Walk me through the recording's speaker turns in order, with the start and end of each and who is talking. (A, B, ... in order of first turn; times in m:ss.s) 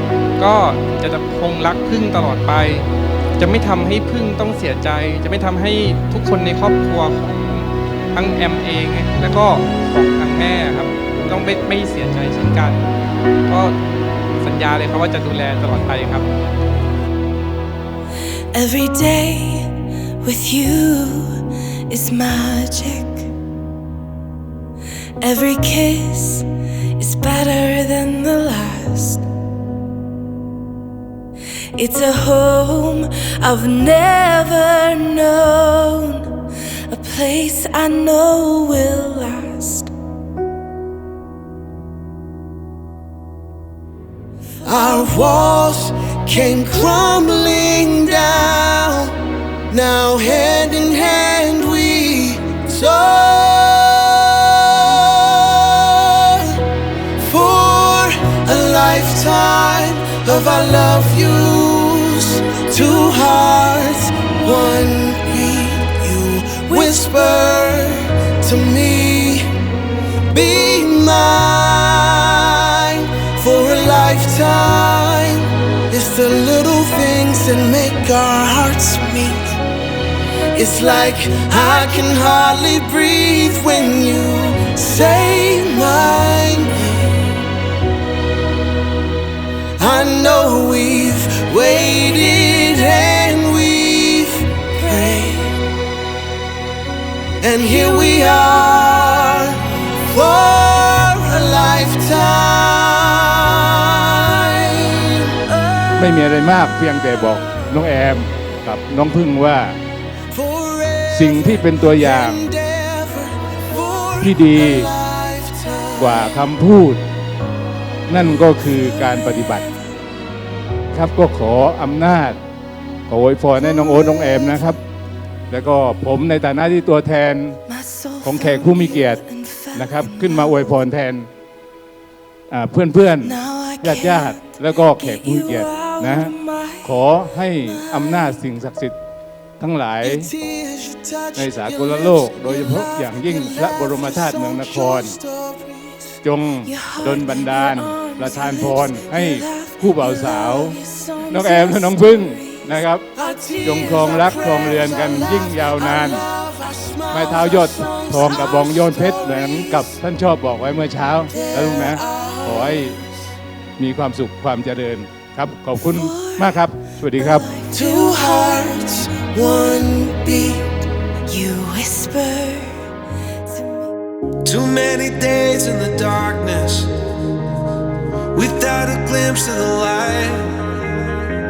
0:00.4-0:02.9 A
0:03.4-0:12.8 A
0:13.5-0:13.8 A
0:14.4-0:16.3 A
0:18.5-0:23.3 B
0:25.2-0:29.2 B
0:31.8-0:39.9 B
0:44.6-0:56.6 C
0:57.2-1:09.5 C
1:10.3-1:19.6 C
1:20.5-1:27.2 C
1:29.8-1:35.7 C
1:37.4-1:45.4 C
1:46.0-1:49.8 D
1:50.3-1:56.4 C
1:51.1-1:52.4 D
1:54.2-1:54.9 D
1:56.0-1:57.0 D
1:58.1-1:59.7 D
1:59.0-1:59.8 B
2:00.9-2:02.4 D
2:03.1-2:04.8 D
2:03.7-2:04.8 B
2:05.5-2:07.6 D
2:07.7-2:10.6 B
2:08.2-2:09.2 D
2:09.8-2:11.3 D
2:12.5-2:19.0 D
2:13.2-2:17.0 B
2:17.7-2:18.4 B
2:19.6-2:20.3 D
2:20.0-2:26.2 C
2:21.4-2:25.2 D
2:26.2-2:33.0 D
2:26.7-2:32.7 B
2:33.1-2:39.9 C
2:33.6-2:36.2 D
2:37.1-2:43.0 D
2:41.3-2:42.9 C
2:43.8-2:47.5 D
2:45.8-2:49.2 B
2:47.7-2:50.8 C
2:51.3-2:52.9 B
2:53.5-2:53.9 B
2:54.4-2:57.0 E
2:58.3-3:00.9 E